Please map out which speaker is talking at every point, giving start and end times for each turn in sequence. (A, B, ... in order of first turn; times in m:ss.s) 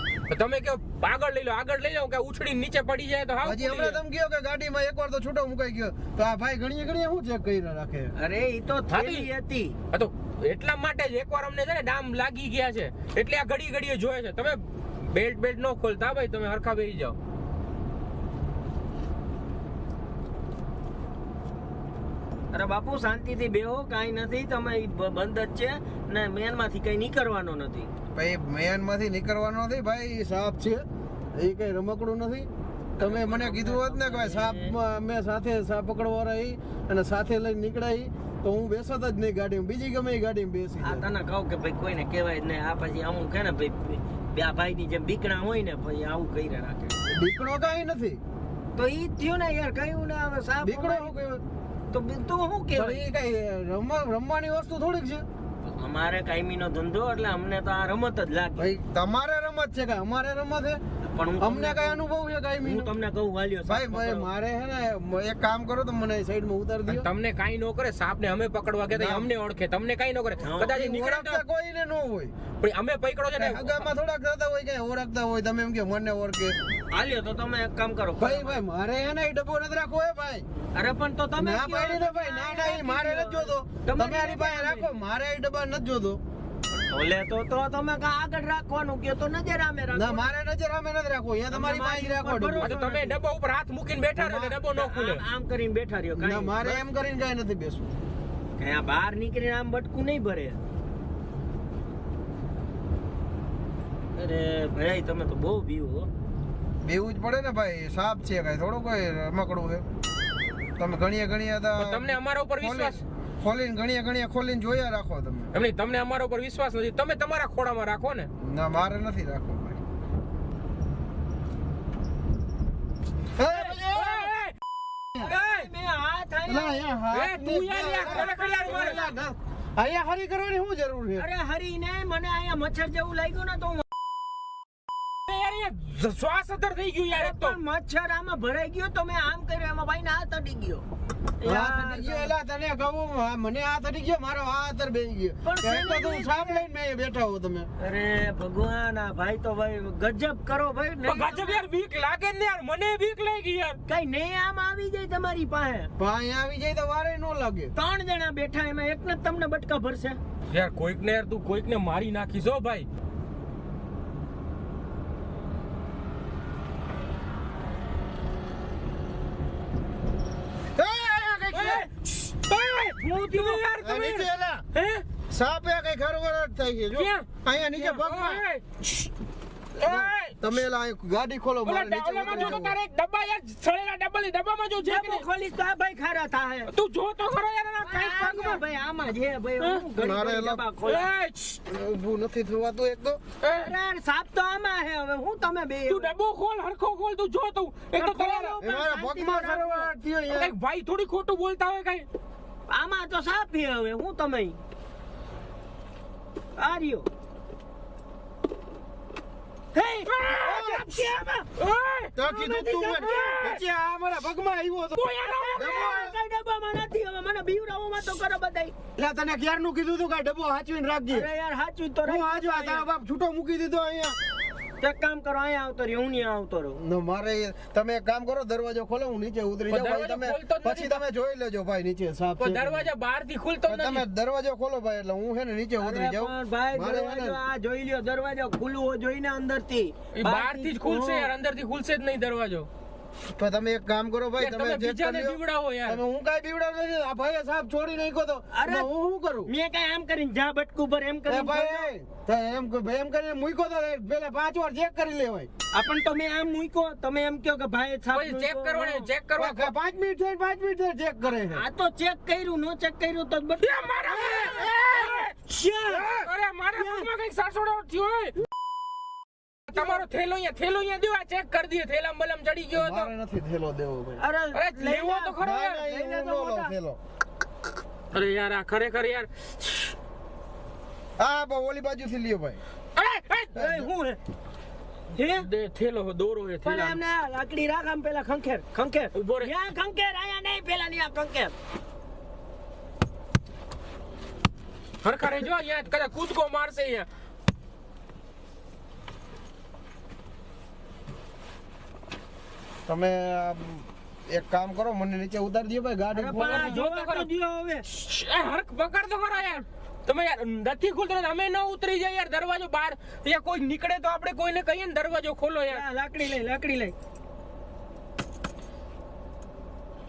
0:00.3-0:04.0 A
0:03.4-0:08.1 B
0:08.2-0:09.8 C
0:08.9-0:09.3 A
0:09.9-0:17.2 A
0:22.5-0:27.9 C
0:28.1-0:32.5 B
0:33.0-0:34.8 C
0:33.0-0:41.0 B
0:40.8-0:46.9 C
0:47.0-0:48.2 B
0:48.8-0:51.1 C
0:50.6-0:51.4 B
0:51.9-0:53.0 C
0:52.7-0:55.2 B
0:55.7-0:58.7 C
0:58.6-1:00.8 B
1:01.0-1:02.0 C
1:01.4-1:02.9 B
1:02.6-1:04.3 C
1:03.6-1:07.1 B
1:06.8-1:11.4 A
1:08.9-1:09.3 B
1:10.4-1:10.7 C
1:10.6-1:12.3 B
1:12.6-1:13.9 A
1:13.4-1:16.6 B
1:16.9-1:18.6 C
1:18.2-1:20.4 B
1:20.7-1:24.9 C
1:21.4-1:26.2 B
1:26.9-1:30.3 C
1:29.9-1:32.7 B
1:31.5-1:33.2 C
1:32.6-1:35.2 A
1:34.2-1:34.6 B
1:34.7-1:36.8 C
1:36.2-1:37.9 B
1:38.6-1:40.6 C
1:44.1-1:46.1 C
1:46.8-1:49.8 B
1:50.8-1:55.5 B
1:51.8-1:53.0 A
1:55.5-1:58.3 A
1:58.4-1:59.8 B
2:03.4-2:04.3 B
2:03.4-2:03.8 C
2:03.7-2:04.5 A
2:05.2-2:05.6 A
2:05.2-2:07.0 C
2:06.4-2:11.2 B
2:07.1-2:09.0 A
2:07.7-2:09.2 C
2:11.2-2:13.8 C
2:15.3-2:17.6 A
2:17.1-2:20.8 C
2:21.4-2:22.3 C
2:21.4-2:27.7 B
2:25.4-2:26.6 C
2:27.8-2:31.6 C
2:31.0-2:33.8 A
2:33.9-2:35.9 C
2:36.0-2:37.7 B
2:37.7-2:40.2 C
2:40.5-2:42.8 A
2:50.8-2:51.9 B
2:51.5-2:55.0 A
2:53.0-2:53.6 C
2:53.8-2:54.6 B
2:55.3-2:58.4 B
2:56.9-2:59.1 A
2:59.8-3:00.4 A
2:59.8-3:02.8 B
3:01.6-3:05.2 A
3:02.3-3:02.6 C
3:04.8-3:06.7 C
3:06.7-3:08.6 A
3:07.8-3:11.1 C
3:09.6-3:09.8 A
3:10.0-3:10.6 B
3:10.8-3:11.6 A
3:11.7-3:13.2 B
3:13.4-3:13.7 A
3:13.6-3:16.1 C
3:15.9-3:18.6 A
3:17.9-3:19.9 C
3:18.6-3:20.5 B
3:20.3-3:22.1 A
3:22.7-3:24.6 C
3:26.6-3:27.1 C
3:29.7-3:31.5 C
3:30.0-3:31.0 A
3:31.6-3:33.6 A
3:32.2-3:36.2 B
3:32.3-3:33.4 C
3:34.9-3:35.8 A
3:35.2-3:38.8 C
3:39.0-3:41.3 B
3:41.1-3:42.9 C
3:42.0-3:44.2 B
3:44.8-3:46.8 C
3:46.8-3:52.9 B
3:49.7-3:51.0 A
3:52.4-3:54.0 A
3:53.6-3:57.4 B
3:55.8-4:01.3 C
4:00.1-4:02.7 A
4:03.3-4:09.5 B
4:04.4-4:06.0 A
4:08.5-4:08.9 C
4:09.4-4:11.9 C
4:11.3-4:15.5 B
4:15.7-4:19.1 C
4:18.1-4:19.7 A
4:19.4-4:21.6 B
4:21.4-4:26.1 C
4:23.6-4:25.3 A
4:25.9-4:26.3 B
4:26.1-4:28.3 A
4:26.7-4:27.1 C
4:29.7-4:33.1 A
4:32.7-4:34.2 B
4:34.2-4:36.7 C
4:34.5-4:35.8 A
4:35.4-4:37.0 B
4:38.1-4:39.9 A
4:41.2-4:42.6 B
4:43.0-4:43.7 A
4:43.5-4:44.2 C
4:43.6-4:43.9 B
4:45.1-4:45.5 C
4:45.3-4:47.0 A
4:46.6-4:51.5 C
4:49.1-4:49.5 A
4:55.0-4:57.1 A
5:02.8-5:06.8 B
5:06.1-5:07.8 C
5:06.3-5:07.3 A
5:07.9-5:15.8 A
5:15.7-5:16.9 C